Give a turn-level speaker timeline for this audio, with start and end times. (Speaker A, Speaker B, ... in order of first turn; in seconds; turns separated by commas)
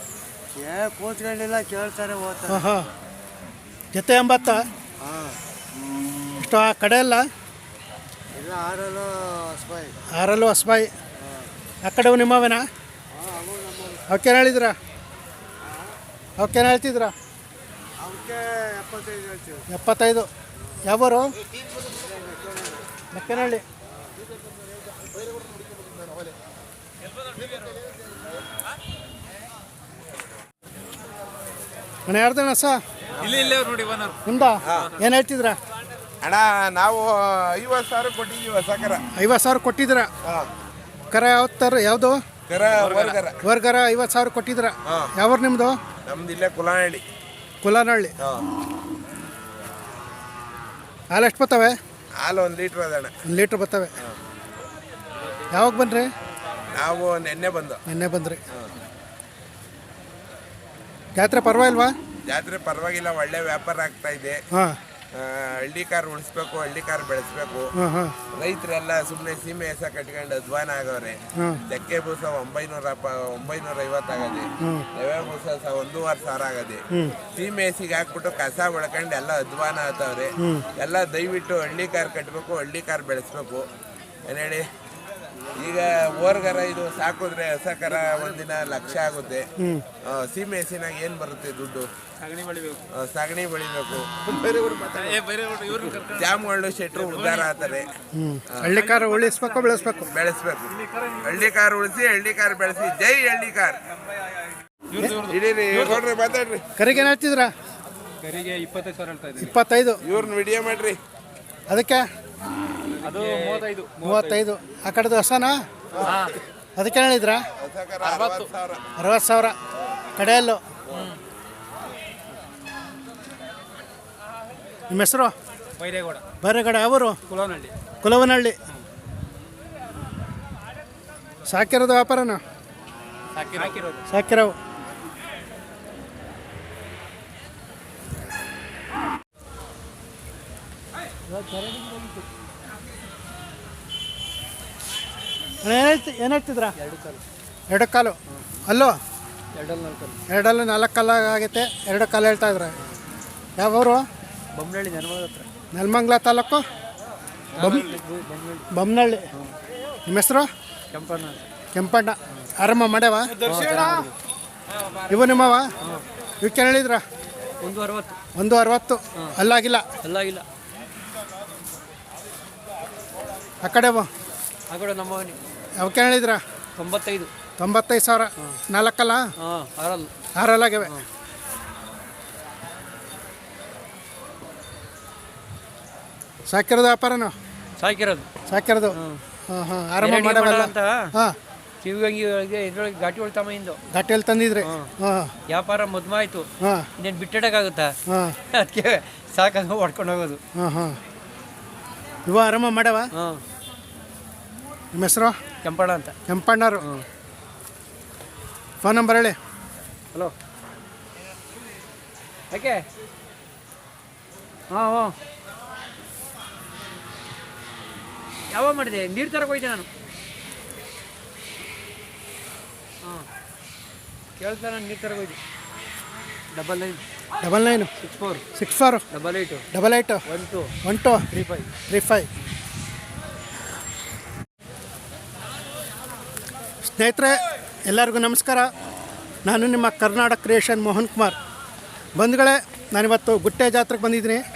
Speaker A: 0.5-2.5, Speaker B: 2.5-2.9, Speaker B: 3.9-4.6, Speaker A: 5.0-5.3, Speaker B: 6.4-7.2, Speaker A: 8.3-9.9, Speaker B: 10.1-10.9, Speaker B: 11.8-12.6, Speaker A: 13.2-14.0, Speaker B: 14.1-14.7, Speaker B: 16.4-17.1, Speaker A: 18.0-19.6, Speaker B: 19.7-20.3, Speaker B: 20.9-21.3, Speaker A: 22.1-22.4, Speaker B: 23.1-23.6, Speaker B: 32.1-32.8, Speaker C: 33.2-33.6, Speaker B: 34.2-35.6, Speaker C: 36.2-39.0, Speaker B: 39.2-40.1, Speaker C: 40.2-40.5, Speaker B: 41.1-42.2, Speaker C: 42.5-43.4, Speaker B: 43.4-45.8, Speaker C: 44.9-45.1, Speaker C: 46.0-47.0, Speaker B: 47.6-48.1, Speaker C: 48.2-48.5, Speaker B: 51.1-51.7, Speaker C: 52.2-53.1, Speaker B: 53.3-53.9, Speaker B: 55.5-56.1, Speaker C: 56.7-57.8, Speaker B: 57.9-58.4, Speaker B: 61.1-61.9, Speaker C: 62.3-64.4, Speaker C: 65.1-67.7, Speaker B: 67.8-68.1, Speaker C: 68.4-83.7, Speaker B: 80.4-80.6, Speaker C: 84.2-84.7, Speaker C: 85.6-89.5, Speaker C: 90.0-91.9, Speaker D: 92.3-92.8, Speaker C: 93.0-95.2, Speaker D: 95.0-97.5, Speaker C: 95.8-97.9, Speaker B: 98.1-100.1, Speaker C: 100.1-103.8, Speaker D: 105.0-106.0, Speaker C: 105.0-106.7, Speaker B: 106.8-107.5, Speaker D: 108.2-109.3, Speaker B: 109.4-110.0, Speaker C: 110.0-111.0, Speaker B: 111.7-112.0, Speaker E: 113.0-113.8, Speaker D: 113.2-114.3, Speaker B: 114.0-115.6, Speaker B: 116.8-117.4, Speaker C: 117.6-118.8, Speaker D: 118.0-118.5, Speaker B: 119.0-119.5, Speaker B: 120.2-120.6, Speaker B: 124.9-125.3, Speaker E: 125.8-126.2, Speaker B: 126.4-127.2, Speaker E: 127.3-127.7, Speaker B: 128.0-128.5, Speaker B: 131.5-132.4, Speaker D: 133.3-133.6, Speaker E: 133.5-134.0, Speaker B: 134.1-134.5, Speaker E: 141.5-142.2, Speaker B: 145.6-146.7, Speaker E: 146.8-147.2, Speaker B: 147.7-148.9, Speaker E: 149.6-150.2, Speaker B: 150.3-152.7, Speaker B: 153.6-154.0, Speaker E: 154.5-155.5, Speaker B: 155.7-156.6, Speaker B: 157.5-158.0, Speaker E: 157.6-158.7, Speaker B: 158.7-159.3, Speaker B: 160.1-160.5, Speaker E: 160.9-161.4, Speaker B: 161.7-163.4, Speaker E: 163.4-164.1, Speaker B: 165.1-165.7, Speaker B: 166.4-167.0, Speaker E: 167.6-168.2, Speaker B: 168.3-169.8, Speaker E: 170.0-170.4, Speaker B: 173.6-174.1, Speaker E: 174.7-175.4, Speaker B: 175.8-176.4, Speaker E: 176.8-177.3, Speaker B: 177.6-179.2, Speaker E: 179.4-180.1, Speaker B: 180.3-180.9, Speaker B: 186.5-187.3, Speaker E: 187.8-188.3, Speaker B: 188.5-188.9, Speaker E: 188.9-189.2, Speaker B: 189.5-191.3, Speaker E: 190.0-191.1, Speaker E: 191.8-193.8, Speaker B: 193.9-195.3, Speaker E: 194.6-194.9, Speaker E: 195.5-196.5, Speaker B: 196.6-196.9, Speaker E: 197.0-197.9, Speaker B: 198.1-198.3, Speaker E: 198.5-200.4, Speaker B: 200.5-201.0, Speaker B: 202.2-203.1, Speaker E: 203.2-203.4, Speaker B: 204.9-205.3, Speaker E: 205.6-206.1, Speaker B: 206.3-206.8, Speaker B: 208.8-209.3, Speaker E: 212.5-212.8, Speaker E: 214.7-215.1, Speaker E: 218.5-219.9, Speaker E: 224.4-225.4, Speaker E: 226.5-227.0, Speaker B: 227.4-227.9, Speaker E: 228.0-228.4, Speaker B: 228.5-229.0, Speaker E: 229.1-229.6, Speaker B: 229.7-230.2, Speaker E: 230.3-230.7, Speaker B: 230.8-231.2, Speaker E: 231.3-231.7, Speaker B: 231.9-232.3, Speaker B: 236.9-238.7, Speaker B: 239.5-241.4, Speaker B: 242.2-244.4